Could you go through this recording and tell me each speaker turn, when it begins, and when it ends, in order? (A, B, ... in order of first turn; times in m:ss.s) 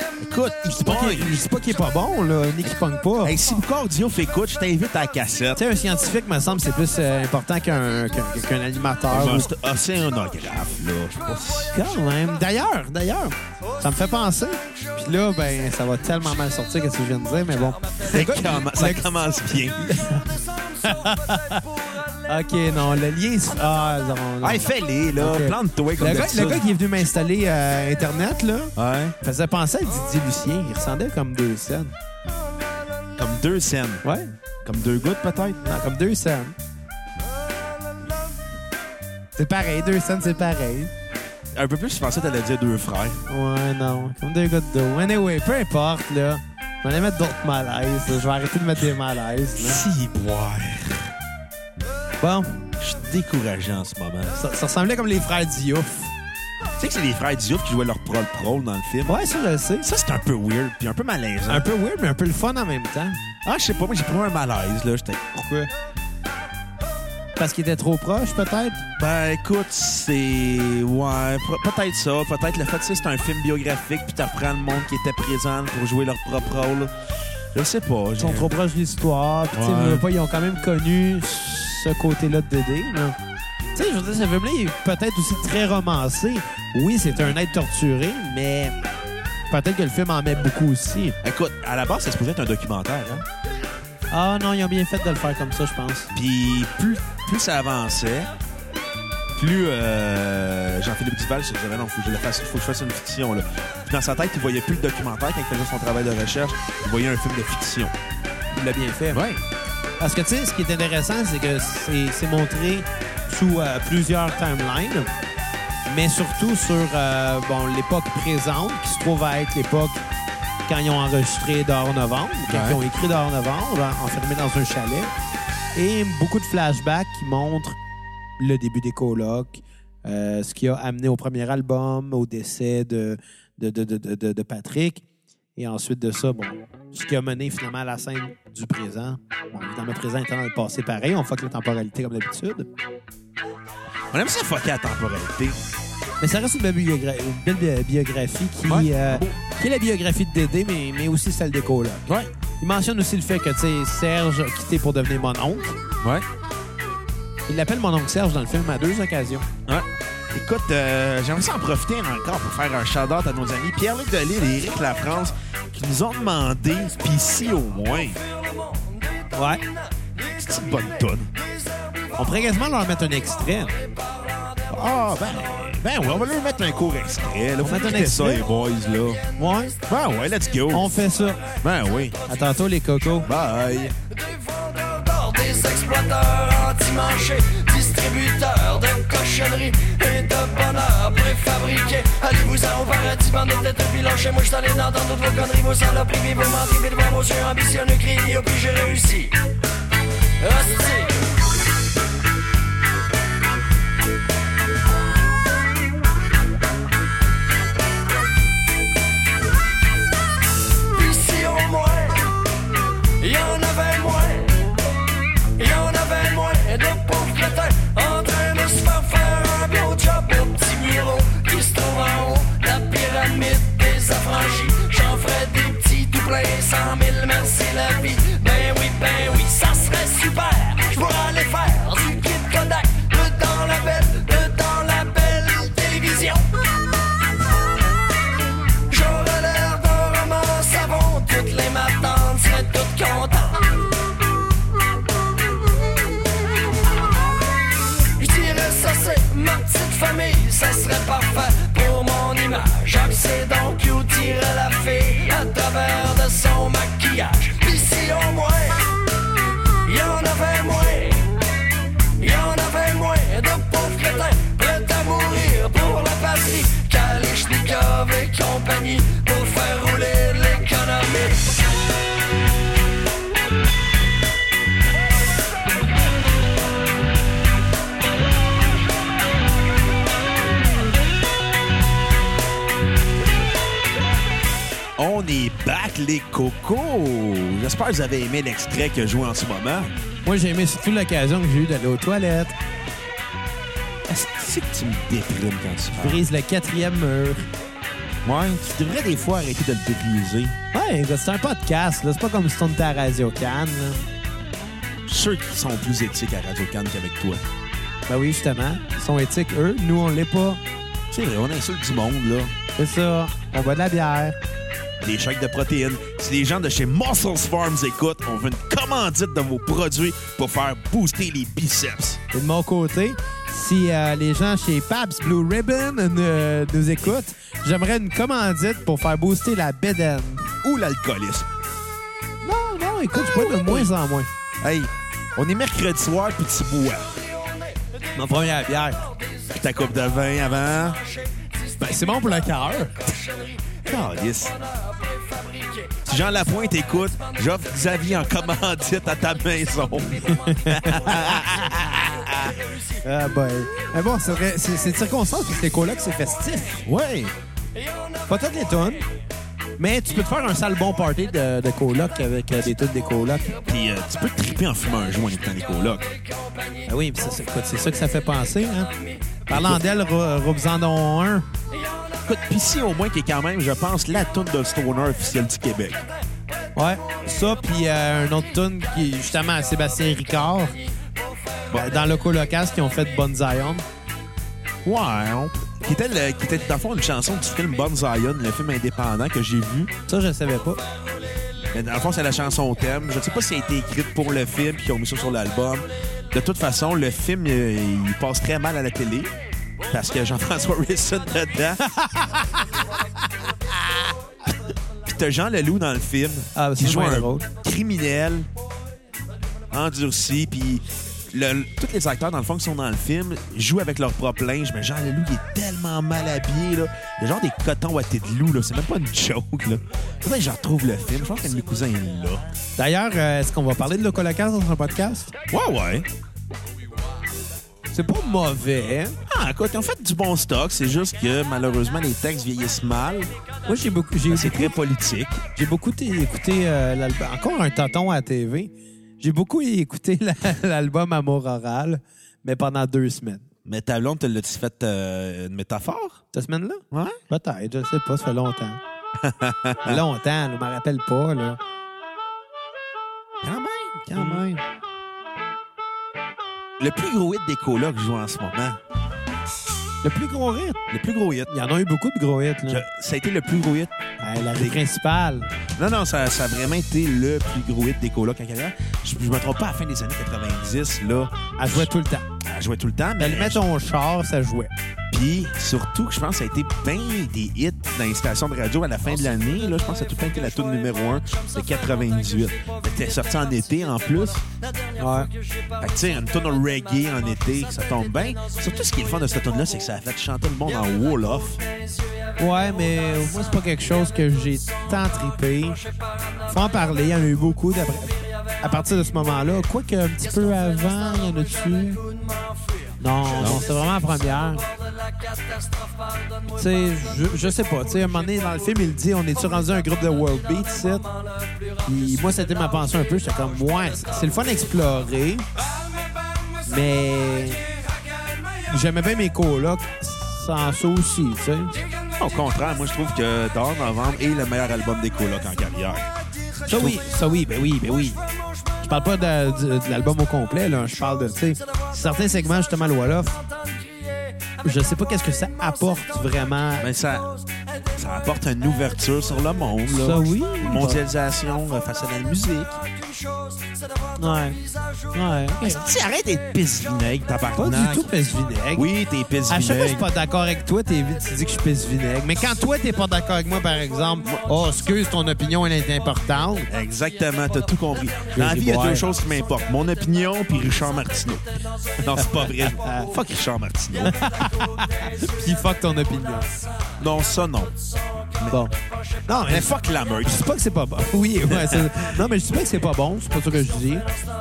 0:00.2-0:01.4 A
0:00.8-0:03.4 B
0:03.2-0:05.6 A
0:05.6-0:09.5 B
0:09.1-0:11.7 A
0:11.7-0:19.1 B
0:18.0-0:20.0 A
0:19.8-0:21.7 B
0:22.3-0:31.9 B
0:24.4-0:26.7 A
0:28.8-0:29.1 A
0:33.2-0:34.0 A
0:34.0-0:34.3 B
0:34.6-0:35.6 A
0:35.6-0:36.5 B
0:39.4-0:40.9 B
0:41.5-0:43.2 A
0:43.2-0:49.8 B
0:49.6-0:51.1 A
0:52.2-0:52.7 B
0:52.8-0:54.4 A
0:54.4-0:56.1 B
0:56.8-0:59.2 A
0:59.0-0:59.9 B
0:59.8-1:01.6 A
1:01.5-1:03.2 B
1:03.4-1:05.3 A
1:05.3-1:05.7 B
1:07.4-1:08.8 B
1:09.0-1:16.9 A
1:17.5-1:18.5 A
1:18.2-1:23.2 B
1:19.5-1:20.0 A
1:23.7-1:28.7 B
1:29.5-1:31.2 B
1:31.2-1:33.2 A
1:34.1-1:36.1 B
1:36.1-1:38.3 A
1:39.4-1:47.9 A
1:48.5-1:49.2 B
1:49.1-1:49.4 A
1:50.0-1:55.1 B
1:55.8-2:00.0 B
2:00.7-2:05.1 B
2:02.5-2:02.8 A
2:05.7-2:07.8 B
2:08.4-2:15.0 B
2:15.6-2:22.7 B
2:24.1-2:25.6 A
2:26.2-2:32.0 B
2:28.6-2:29.3 A
2:32.0-2:32.3 A
2:32.6-2:35.8 B
2:37.5-2:39.5 B
2:39.6-2:48.2 A
2:48.4-2:49.2 C
2:49.3-2:49.6 B
2:50.3-2:51.3 A
2:52.2-2:53.8 B
2:54.7-2:59.2 A
2:57.6-2:58.4 B
2:59.4-2:59.8 B
2:59.9-3:00.9 A
3:00.7-3:01.4 B
3:01.6-3:02.2 A
3:02.3-3:03.3 B
3:03.2-3:03.9 A
3:04.1-3:19.4 C
3:20.4-3:21.3 C
3:30.9-3:32.4 C
3:33.2-3:34.7 C
3:35.6-3:56.7 C
3:58.9-4:03.7 C
4:08.2-4:18.9 C
4:19.8-4:21.4 C
4:22.2-4:31.6 C
4:45.0-4:49.9 A
4:50.2-4:52.5 B
4:54.1-4:56.2 A
4:55.9-4:57.5 B
4:58.2-5:00.6 A
5:00.7-5:04.0 B
5:05.0-5:07.4 A
5:08.1-5:10.6 B
5:11.1-5:12.5 A
5:12.8-5:14.4 B
5:15.0-5:22.2 A
5:22.3-5:30.5 B
5:30.6-5:31.5 A
5:32.4-5:34.3 B
5:33.1-5:33.9 A
5:34.6-5:37.1 A
5:38.1-5:39.1 B
5:39.5-5:41.0 A
5:41.8-5:43.1 B
5:43.1-5:43.7 C
5:43.8-5:44.6 A
5:44.8-5:46.0 C
5:46.0-5:52.5 A
5:50.2-5:51.6 B
5:53.0-5:56.8 B
5:56.8-5:57.3 A
5:57.8-5:58.1 C
5:58.3-5:59.0 B
5:59.8-6:03.5 B
6:03.6-6:06.1 A
6:06.4-6:06.8 C
6:06.8-6:08.9 B
6:09.5-6:11.5 B
6:09.5-6:09.8 A
6:12.2-6:16.0 A
6:16.7-6:20.8 B
6:21.7-6:22.0 A
6:21.7-6:23.8 B
6:24.8-6:29.9 A
6:30.1-6:30.8 B
6:31.7-6:39.3 A
6:39.9-6:41.9 A
6:41.9-6:42.6 B
6:45.0-6:48.5 A
6:46.5-6:47.4 B
6:49.7-7:02.4 A
7:02.8-7:05.3 B
7:05.5-7:06.1 A
7:07.9-7:09.2 B
7:09.3-7:13.3 A
7:13.6-7:14.7 B
7:14.3-7:15.4 A
7:15.6-7:23.4 B
7:23.6-7:26.2 A
7:26.3-7:28.8 B
7:26.9-7:27.2 A
7:29.2-7:30.0 A
7:29.8-7:31.6 B
7:33.4-7:34.6 A
7:34.1-7:34.5 B
7:36.8-7:38.8 A
7:40.0-7:40.8 B
7:40.9-7:41.5 A
7:41.5-7:42.8 B
7:42.7-7:43.9 A
7:44.2-7:45.5 B
7:45.8-7:51.9 A
7:51.6-7:52.2 B
7:52.4-7:53.6 A
7:53.2-7:54.7 B
7:55.1-8:04.4 A
8:05.0-8:05.3 B
8:05.8-8:11.6 A
8:12.4-8:15.8 B
8:16.5-8:22.0 B
8:23.0-8:24.6 B
8:23.3-8:23.6 A
8:25.3-8:26.3 C
8:26.5-8:31.1 B
8:31.8-8:35.4 B
8:36.6-8:37.6 B
8:38.7-8:41.8 B
8:42.2-8:46.1 A
8:46.7-8:48.2 B
8:46.7-8:47.0 A
8:48.8-8:53.4 B
8:54.6-8:56.9 B
8:56.8-8:57.3 A
8:58.0-9:02.8 A
8:59.9-9:01.0 B
9:04.2-9:04.6 B
9:05.1-9:05.8 B
9:05.6-9:08.1 A
9:07.6-9:08.9 B
9:08.7-9:10.0 A
9:09.5-9:16.7 B
9:16.7-9:21.4 A
9:18.3-9:19.1 B
9:22.0-9:24.2 A
9:22.2-9:23.1 B
9:24.0-9:26.5 B
9:27.0-9:27.7 A
9:28.5-9:28.7 B
9:29.3-9:34.0 B
9:29.4-9:30.5 A
9:31.5-9:32.2 A